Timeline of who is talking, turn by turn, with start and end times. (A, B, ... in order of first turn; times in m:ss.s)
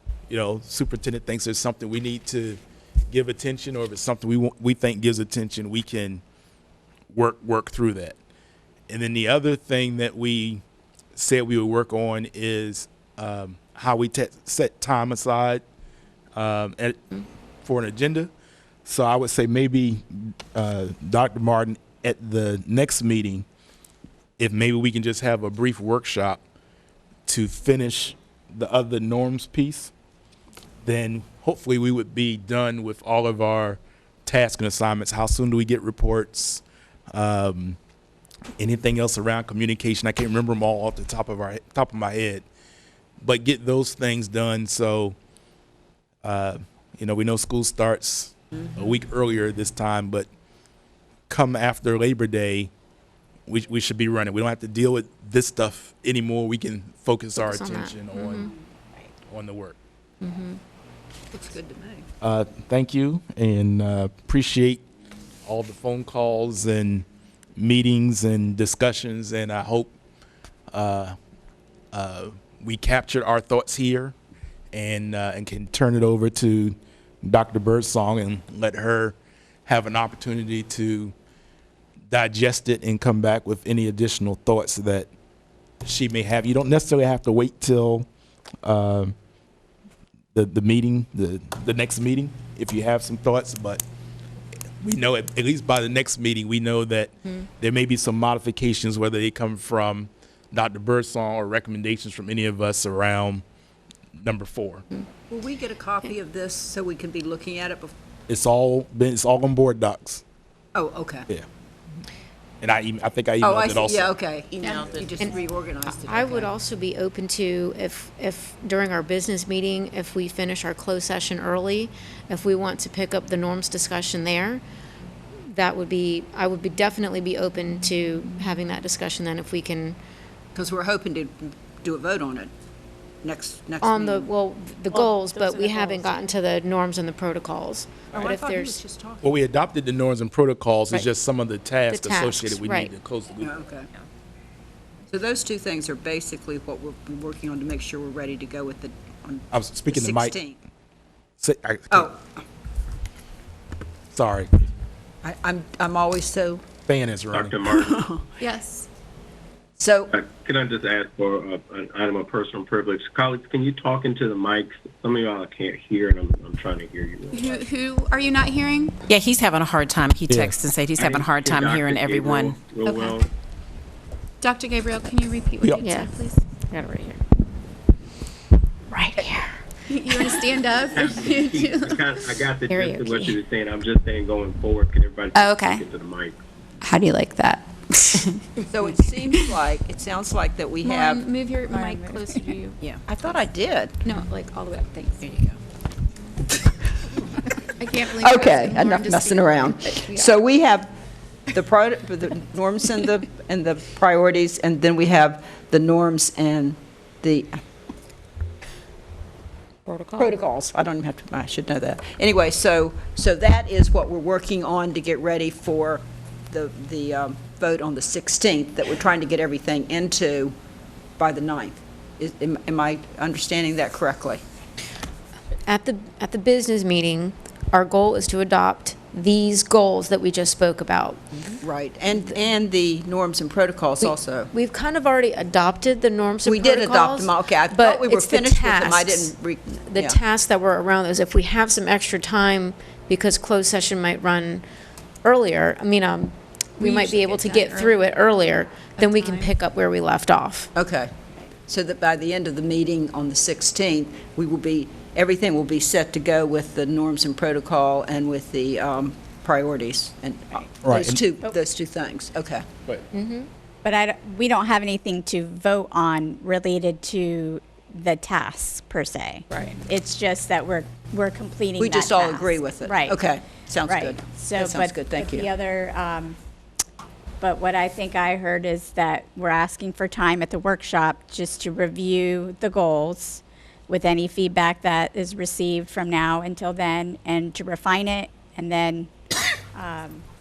0:00.3-0:06.2 A
0:07.1-0:08.2 A
0:08.9-0:10.6 A
0:11.1-0:15.6 A
0:16.4-0:17.1 A
0:17.6-0:18.3 A
0:18.8-0:23.4 A
0:24.4-0:26.4 A
0:27.3-0:29.9 A
0:30.8-0:37.8 A
0:38.6-0:42.4 A
0:43.2-0:45.2 A
0:46.2-0:50.3 A
0:51.3-0:52.7 A
0:53.5-0:58.5 A
0:57.4-0:58.5 B
0:59.2-0:59.8 A
1:00.2-1:00.6 B
1:01.3-1:02.1 C
1:02.2-1:04.8 A
1:05.4-1:07.0 A
1:07.6-1:09.9 A
1:10.7-1:11.2 A
1:11.9-1:14.1 A
1:14.7-1:21.1 A
1:22.1-1:25.1 A
1:25.8-1:28.1 A
1:28.6-1:29.1 A
1:30.3-1:33.8 A
1:34.8-1:43.4 A
1:44.1-1:44.8 A
1:45.3-1:47.9 C
1:48.3-1:50.2 A
1:50.7-1:51.3 C
1:52.6-1:54.2 A
1:53.4-1:56.5 C
1:54.6-1:54.9 D
1:56.0-2:04.6 B
2:05.5-2:10.0 B
2:10.5-2:12.5 C
2:13.2-2:14.3 C
2:13.8-2:18.8 B
2:14.9-2:15.9 E
2:15.7-2:16.1 D
2:18.1-2:19.4 C
2:19.2-2:23.6 A
2:21.9-2:22.9 B
2:23.4-2:23.9 C
2:25.1-2:30.6 C
2:29.5-2:30.4 A
2:31.4-2:32.1 A
2:31.9-2:32.2 C
2:34.1-2:34.5 A
2:35.2-2:36.6 C
2:36.9-2:37.6 A
2:37.3-2:38.1 F
2:37.7-2:38.3 C
2:38.4-2:38.9 D
2:39.8-2:40.1 C
2:40.1-2:47.6 F
2:47.3-2:49.0 D
2:49.1-2:52.6 G
2:50.3-2:50.6 A
2:51.0-2:53.3 F
2:52.8-2:53.2 D
2:54.4-2:56.4 D
2:55.8-2:56.1 B
2:56.7-2:57.2 B
2:58.9-2:59.4 B
2:59.9-3:02.3 D
3:00.1-3:00.4 B
3:00.9-3:06.4 F
3:02.7-3:03.4 B
3:05.4-3:05.8 B
3:06.9-3:07.6 B
3:08.7-3:11.2 C
3:10.8-3:12.8 D
3:11.7-3:12.4 E
3:13.0-3:14.0 C
3:14.0-3:15.6 D
3:17.6-3:20.3 D
3:18.1-3:20.9 C
3:21.5-3:27.6 C
3:29.9-3:30.2 B
3:30.1-3:40.5 C
3:41.2-3:44.4 C
3:45.7-3:51.4 B
3:51.6-3:54.5 C
3:54.0-3:59.3 B
3:56.4-4:00.2 C
3:59.9-4:04.6 B
4:05.2-4:10.7 B
4:06.8-4:08.0 D
4:09.0-4:09.5 D
4:10.7-4:22.6 C
4:20.8-4:21.2 A
4:23.1-4:23.5 B
4:23.8-4:33.2 E
4:31.8-4:35.5 C
4:33.8-4:36.4 E
4:37.4-4:49.1 E
4:49.7-4:50.2 E